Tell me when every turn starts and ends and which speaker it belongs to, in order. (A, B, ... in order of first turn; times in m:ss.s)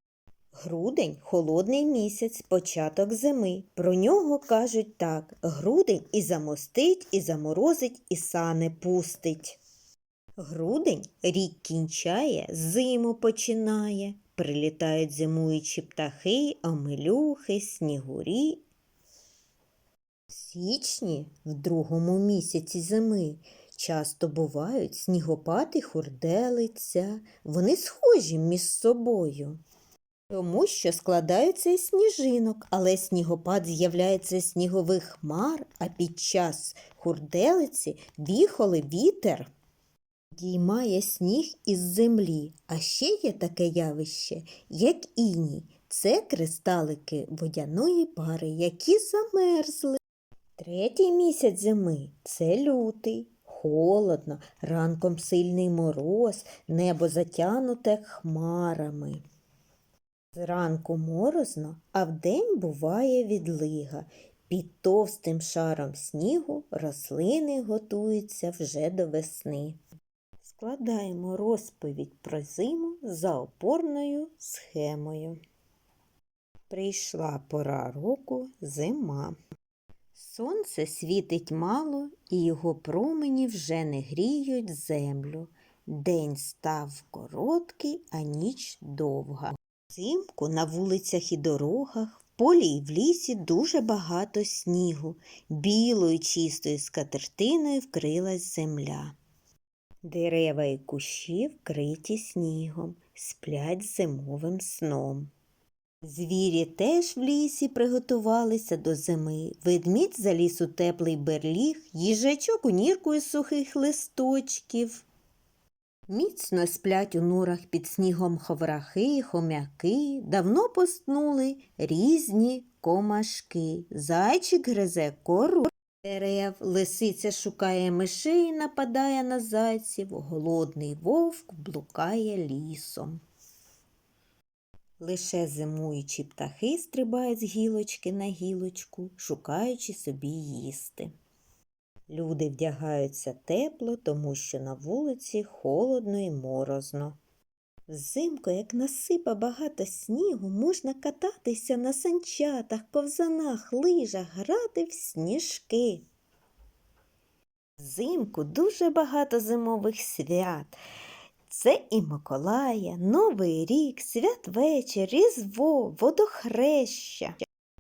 0:00.6-0:09.6 A
0:10.4-0:18.6 A
0:20.3-0:29.6 A
0:30.3-0:39.5 A
0:40.4-0:50.0 A
0:50.6-0:59.2 A
1:00.3-1:09.8 A
1:10.4-1:15.4 A
1:16.7-1:19.4 A
1:20.1-1:39.2 A
1:40.0-1:45.3 A
1:46.0-1:55.1 A
1:56.1-2:13.2 A
2:15.0-2:21.1 A
2:22.1-2:27.2 A
2:27.9-2:36.0 A
2:37.8-2:40.8 A
2:41.5-2:47.4 A